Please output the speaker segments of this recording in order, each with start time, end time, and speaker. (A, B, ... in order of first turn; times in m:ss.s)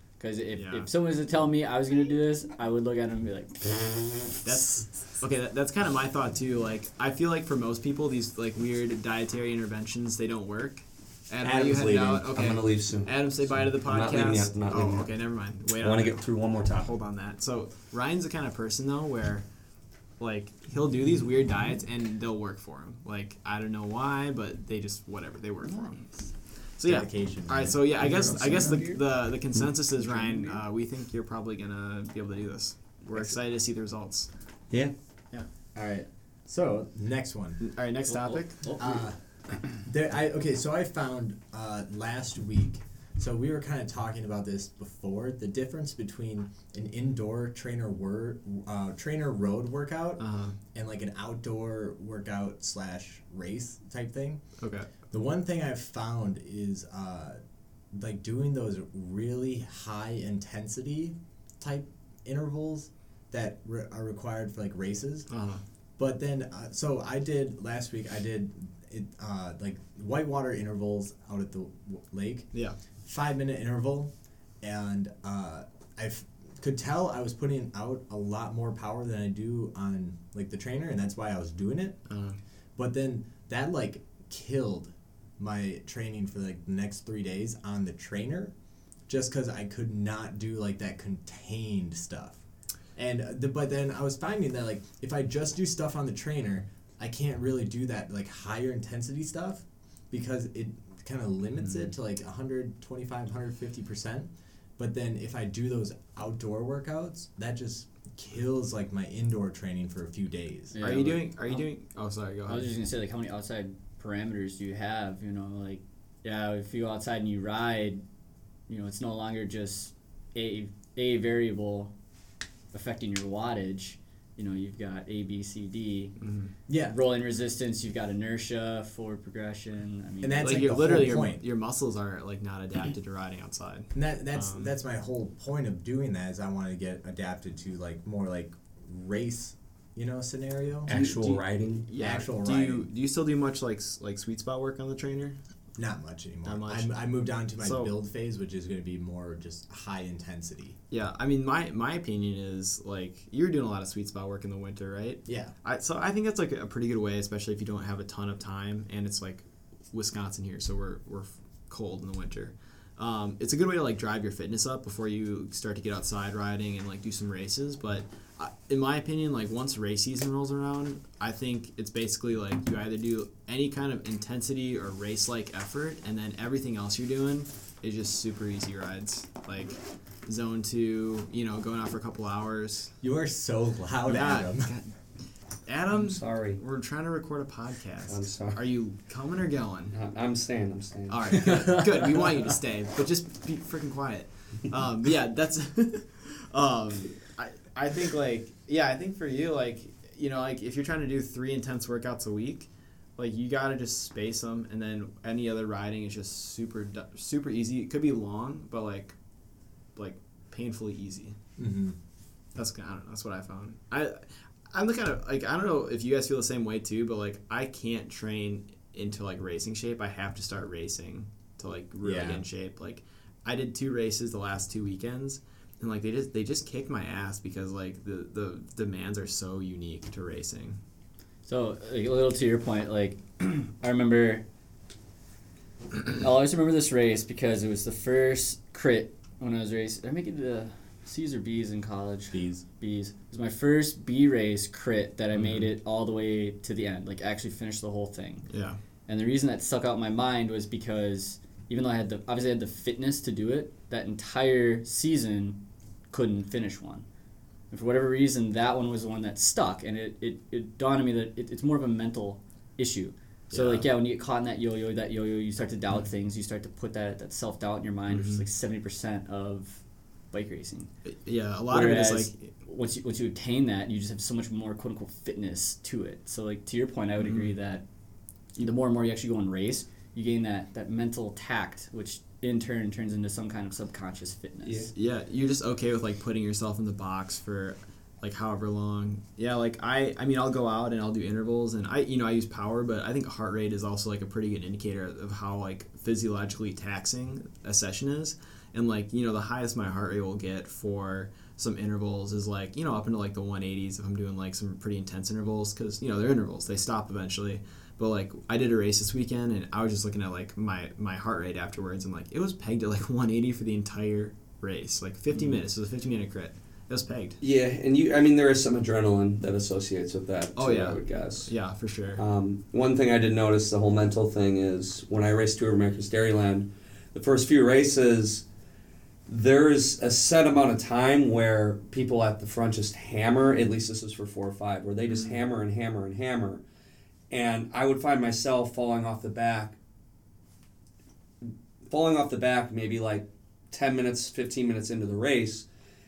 0:00.2-0:04.5 A
0:00.5-0:00.9 B
0:04.4-0:19.4 B
0:11.4-0:15.1 C
0:15.8-0:16.9 C
0:20.2-0:26.1 B
0:25.7-0:26.3 A
0:26.8-0:34.3 B
0:26.8-0:27.8 D
0:28.0-0:28.8 C
0:28.0-0:29.0 A
0:30.0-0:30.6 A
0:35.8-0:37.7 D
0:37.6-0:38.7 B
0:38.1-0:39.0 A
0:38.8-0:54.4 D
0:50.2-0:50.6 B
0:54.6-0:54.9 B
0:55.1-0:57.4 D
0:57.9-1:05.3 D
1:05.3-1:05.6 B
1:06.0-1:12.5 D
1:13.0-1:22.0 D
1:22.1-1:22.4 B
1:22.8-1:28.5 D
1:29.1-1:32.4 D
1:33.0-1:50.8 D
1:50.7-1:51.7 A
1:50.8-1:52.7 B
1:52.5-1:58.0 A
1:58.7-2:01.9 A
2:02.7-2:06.2 A
2:06.2-2:06.5 B
2:06.7-2:07.0 D
2:06.8-2:10.7 A
2:10.2-2:11.4 D
2:10.4-2:14.8 B
2:13.9-2:21.0 D
2:20.9-2:21.9 C
2:20.9-2:25.4 B
2:22.0-2:22.9 D
2:25.8-2:30.8 D
2:26.4-2:27.0 B
2:27.6-2:27.9 B
2:30.9-3:02.9 B
2:35.2-2:35.5 D
3:03.0-3:04.7 D
3:04.1-3:04.9 B
3:05.7-3:10.0 B
3:05.9-3:06.6 C
3:08.1-3:08.6 C
3:09.9-3:11.7 C
3:11.1-3:29.2 B
3:30.0-3:31.4 B
3:31.6-3:32.0 D
3:32.6-3:50.8 B
3:42.0-3:42.4 D
3:51.5-3:54.4 A
3:56.1-4:08.5 A
4:02.3-4:02.6 D
4:05.3-4:05.7 B
4:08.5-4:08.8 B
4:09.1-4:17.0 A
4:17.7-4:30.9 A
4:23.5-4:23.9 B
4:28.1-4:28.4 B
4:31.1-4:32.4 B
4:31.7-4:37.8 A
4:37.2-4:37.5 B
4:38.6-4:44.9 A
4:44.6-4:44.9 C
4:44.9-5:17.4 B
5:17.4-5:21.5 C
5:20.6-5:22.2 B
5:22.2-5:28.4 C
5:29.3-5:36.6 C
5:37.3-5:39.8 C
5:41.4-5:45.7 C